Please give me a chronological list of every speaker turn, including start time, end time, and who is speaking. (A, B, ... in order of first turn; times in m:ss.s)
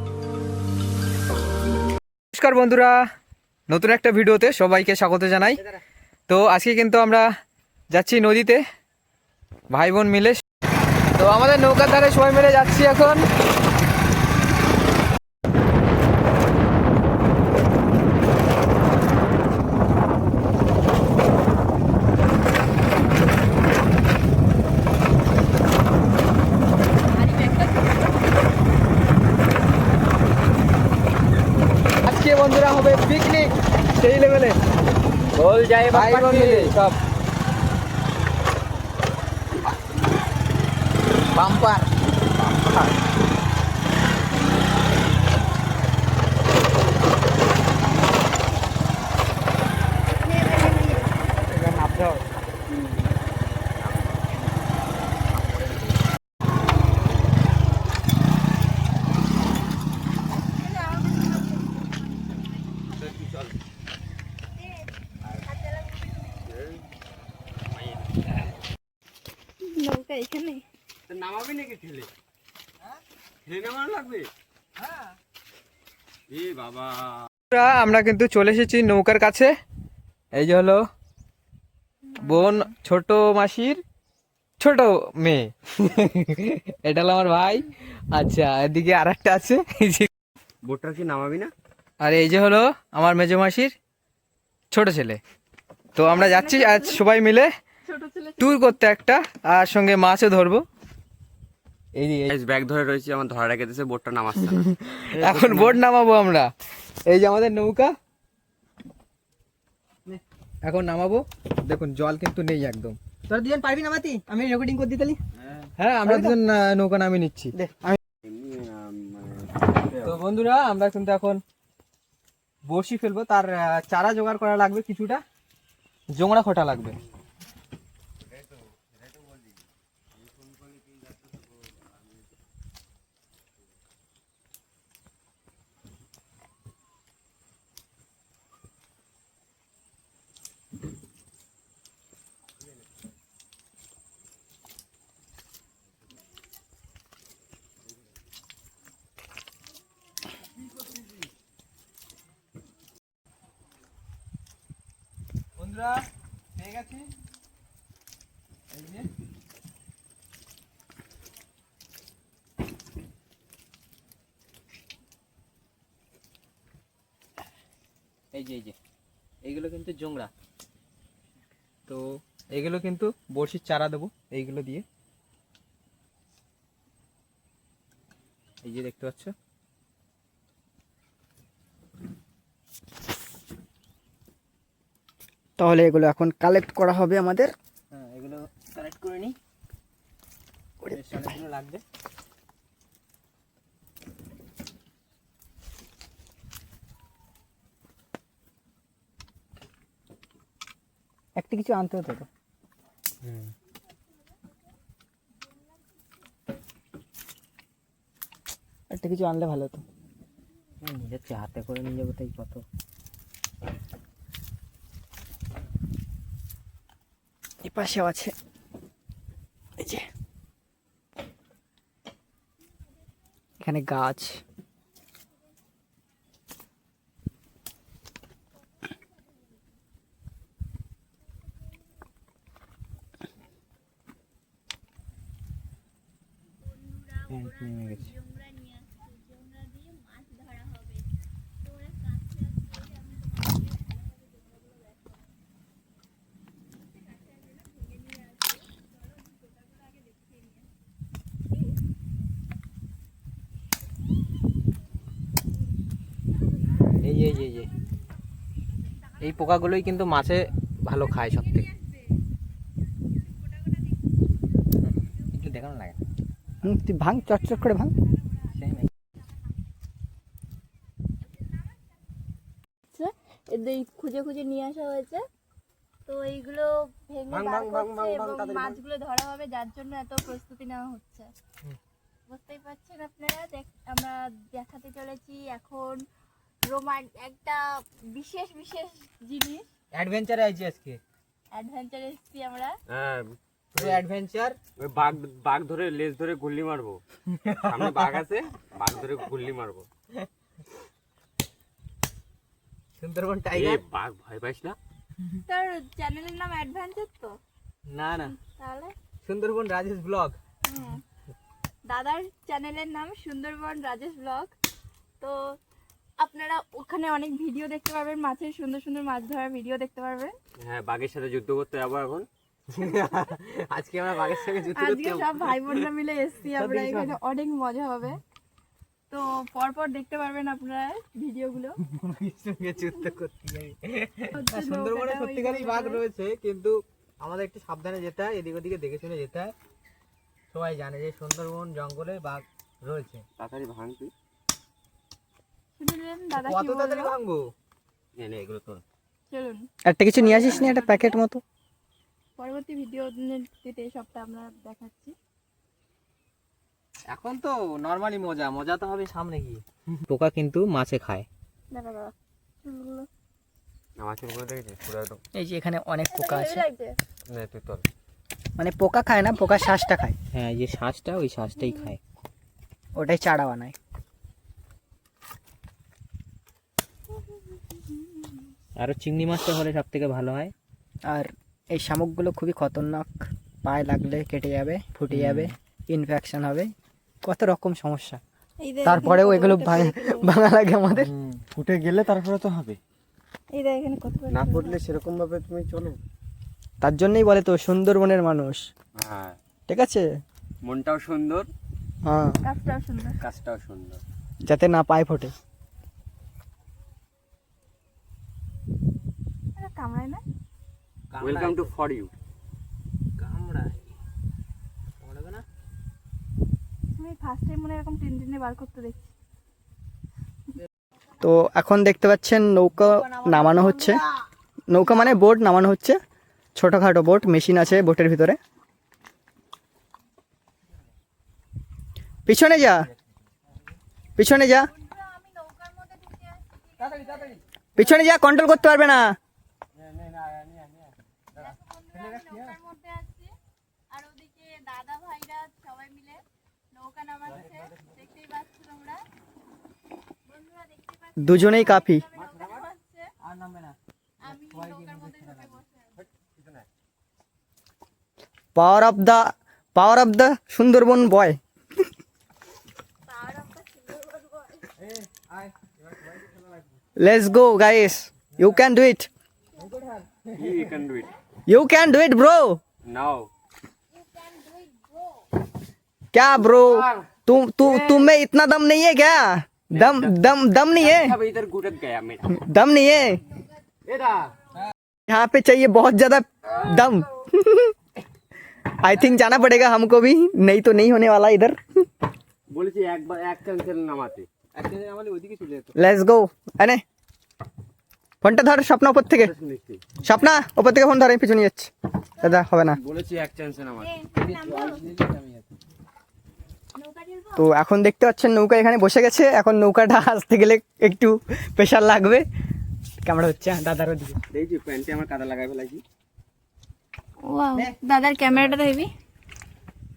0:02.3-0:03.0 A
0:03.7-0:05.6 A
0:06.3-0:07.3 A
0:07.9-0:08.6 A
0:09.7-0:10.4 A
0:11.2-0:13.2 A
0:27.0-0:28.0 B
0:32.0-0:34.6 A
0:35.3-0:36.9 C
0:35.9-0:36.8 A
0:41.3-0:41.9 A
0:51.5-0:52.3 A
0:53.8-0:54.1 C
1:00.5-1:03.1 B
1:03.0-1:03.5 C
1:05.4-1:06.5 B
1:07.7-1:08.0 C
1:09.6-1:10.6 B
1:11.1-1:12.1 C
1:13.5-1:14.3 C
1:16.3-1:17.3 C
1:17.5-1:19.6 A
1:20.3-1:20.8 A
1:22.1-1:22.7 B
1:22.2-1:23.8 A
1:24.6-1:30.1 A
1:30.6-1:31.5 C
1:32.0-1:33.7 A
1:34.7-1:35.2 A
1:36.0-1:37.5 A
1:36.1-1:37.1 B
1:37.8-1:38.8 B
1:38.4-1:40.6 A
1:41.9-1:42.3 A
1:42.3-1:45.8 C
1:45.2-1:46.5 A
1:47.1-1:48.0 A
1:50.6-1:53.0 A
1:53.3-1:55.2 D
1:55.8-1:57.5 A
1:56.0-1:56.4 D
1:57.5-1:58.0 D
1:58.2-2:00.2 C
2:00.0-2:01.4 A
2:02.7-2:05.2 A
2:06.1-2:07.0 A
2:08.3-2:09.6 C
2:10.2-2:11.4 C
2:35.6-2:37.1 A
2:38.7-2:39.1 A
2:48.3-2:48.8 A
2:49.4-2:50.3 A
2:51.9-2:54.8 A
2:58.6-2:59.3 A
3:05.6-3:07.5 D
3:07.9-3:09.4 A
3:10.9-3:11.8 A
3:21.4-3:22.3 D
3:23.2-3:23.5 A
3:28.9-3:29.8 D
3:30.8-3:32.6 A
3:37.6-3:38.4 D
3:39.8-3:40.1 D
3:43.6-3:44.4 D
3:57.3-3:58.1 A
3:57.6-4:00.9 B
4:07.3-4:10.5 B
4:17.0-4:17.7 A
4:19.2-4:21.7 A
4:24.8-4:26.0 A
4:26.6-4:27.9 D
4:28.6-4:28.9 A
4:32.9-4:35.2 B
4:36.1-4:41.3 B
4:37.3-4:38.8 C
4:42.3-4:46.0 B
4:46.6-4:49.6 B
4:49.9-4:51.0 A
4:51.5-4:52.8 B
4:52.9-4:54.0 C
4:53.7-4:54.6 A
4:54.8-4:57.0 C
4:57.4-4:58.1 A
4:57.6-4:59.9 C
5:03.0-5:03.8 A
5:03.5-5:04.8 C
5:05.5-5:07.4 B
5:07.9-5:08.4 A
5:08.3-5:08.9 B
5:09.2-5:10.4 A
5:10.6-5:11.0 B
5:11.9-5:14.5 B
5:15.2-5:15.6 B
5:16.2-5:20.4 B
5:20.6-5:22.3 C
5:22.7-5:25.8 A
5:24.6-5:28.2 B
5:26.5-5:27.2 A
5:29.1-5:31.8 B
5:31.8-5:39.6 A
5:34.3-5:36.0 B
5:40.5-5:43.2 A
5:43.4-5:44.1 C
5:45.8-5:47.1 B
5:46.4-5:47.5 A
5:48.2-5:48.8 C
5:49.3-5:51.2 B
5:49.9-5:51.4 D
5:52.4-5:55.2 B
5:57.1-6:01.3 A
6:01.7-6:02.1 B
6:02.6-6:03.1 B
6:04.0-6:05.2 C
6:05.4-6:06.6 D
6:06.1-6:07.0 B
6:07.3-6:07.8 C
6:08.6-6:10.2 D
6:09.4-6:10.0 B
6:10.3-6:12.0 A
6:13.0-6:13.8 D
6:18.0-6:18.3 B
6:18.8-6:20.5 A
6:21.1-6:26.7 D
6:25.1-6:25.5 A
6:27.2-6:28.2 D
6:28.6-6:30.4 B
6:28.8-6:31.1 D
6:31.0-6:31.4 A
6:31.5-6:32.8 C
6:33.5-6:34.8 B
6:34.3-6:36.0 C
6:36.8-6:38.7 D
6:39.0-6:39.4 C
6:39.7-6:40.1 D
6:40.6-6:41.5 C
6:42.0-6:42.4 D
6:42.4-6:43.2 B
6:43.2-6:44.0 C
6:44.5-6:45.3 D
6:49.6-6:50.2 B
6:51.1-6:51.7 A
6:51.2-6:52.1 C
6:53.2-6:53.8 A
6:55.0-6:55.4 A
6:57.0-6:59.1 B
7:01.2-7:04.0 D
7:03.5-7:03.8 B
7:04.7-7:06.0 D
7:06.6-7:08.4 D
7:12.3-7:12.9 D
7:14.2-7:14.7 D
7:14.5-7:17.4 B
7:16.8-7:17.4 A
7:17.8-7:19.2 D
7:19.8-7:21.4 C
7:21.4-7:23.3 B
7:22.0-7:22.4 A
7:23.9-7:29.0 B
7:27.4-7:27.7 C
7:30.3-7:33.1 B
7:31.2-7:32.0 D
7:32.1-7:32.6 C
7:33.2-7:35.5 A
7:34.2-7:36.0 B
7:36.0-7:36.6 C
7:38.6-7:41.4 D
7:43.1-7:44.7 B
7:44.8-7:46.6 A
7:47.0-7:49.1 D
7:49.6-7:50.4 A
7:50.4-7:51.1 C
7:51.5-7:52.6 D
7:52.9-7:53.3 C
7:53.9-7:55.3 B
7:56.1-8:01.2 D
7:56.5-7:57.0 C
7:59.7-8:00.1 C
8:00.8-8:02.3 C
8:02.3-8:03.2 D
8:03.9-8:04.3 C
8:05.1-8:07.7 D
8:08.8-8:11.6 D
8:08.9-8:09.4 A
8:12.5-8:14.3 C
8:14.6-8:15.7 A
8:15.8-8:16.8 D
8:18.2-8:19.3 D
8:19.1-8:19.9 C
8:20.0-8:22.8 D
8:22.8-8:23.9 C
8:23.8-8:24.8 B
8:24.2-8:25.5 A
8:26.8-8:27.5 B
8:27.4-8:32.2 D
8:33.0-8:34.2 D
8:34.3-8:35.8 C
8:37.2-8:38.9 B